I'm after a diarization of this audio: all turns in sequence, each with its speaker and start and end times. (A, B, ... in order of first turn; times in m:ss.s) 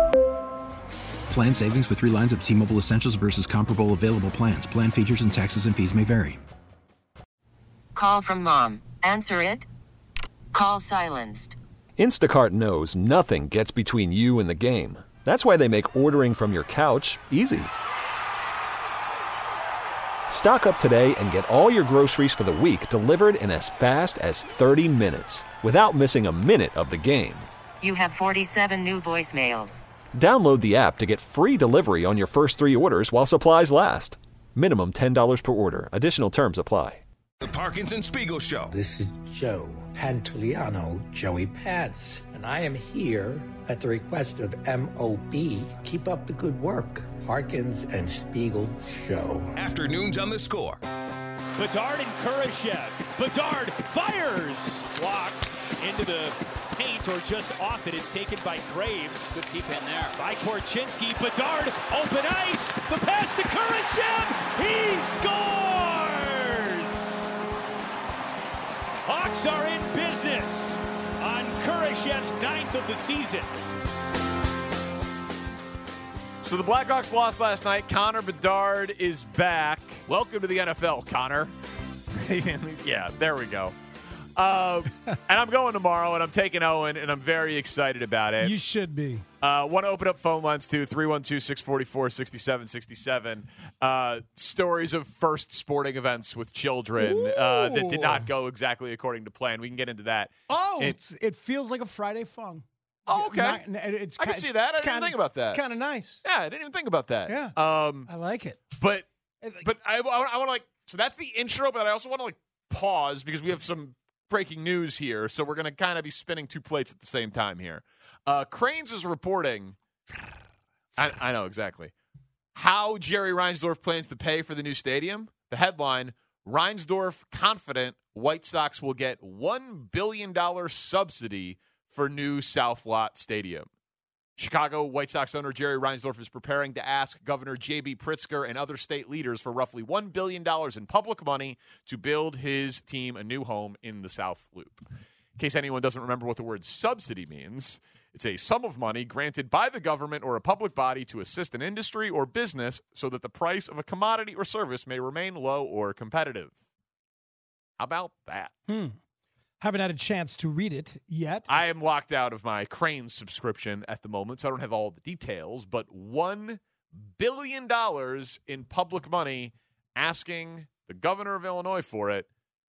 0:01.3-0:06.4 A
0:07.9-0:09.6 B
0:10.5-0:11.6 B
0:12.0-0:17.7 C
0:20.3-0:27.5 C
0:27.8-0:29.8 B
0:30.2-0:37.0 C
0:37.4-0:38.7 D
0:38.7-0:49.5 E
0:49.6-0:50.8 D
0:51.6-1:07.2 F
1:09.0-1:13.5 F
1:16.4-1:21.5 G
1:22.1-1:23.8 G
1:24.4-1:28.5 G
1:28.4-1:29.2 H
1:29.4-1:41.0 G
1:37.0-1:38.3 H
1:40.5-1:46.2 H
1:43.1-1:43.6 G
1:44.2-1:45.6 G
1:46.2-1:48.1 G
1:47.3-1:48.6 H
1:48.8-1:49.1 G
1:49.6-1:59.8 G
2:01.0-2:01.9 G
2:02.6-2:13.7 G
2:14.4-2:24.8 G
2:25.4-2:36.5 G
2:37.8-2:38.5 G
2:38.7-2:39.0 H
2:39.6-2:41.5 H
2:41.5-2:52.3 G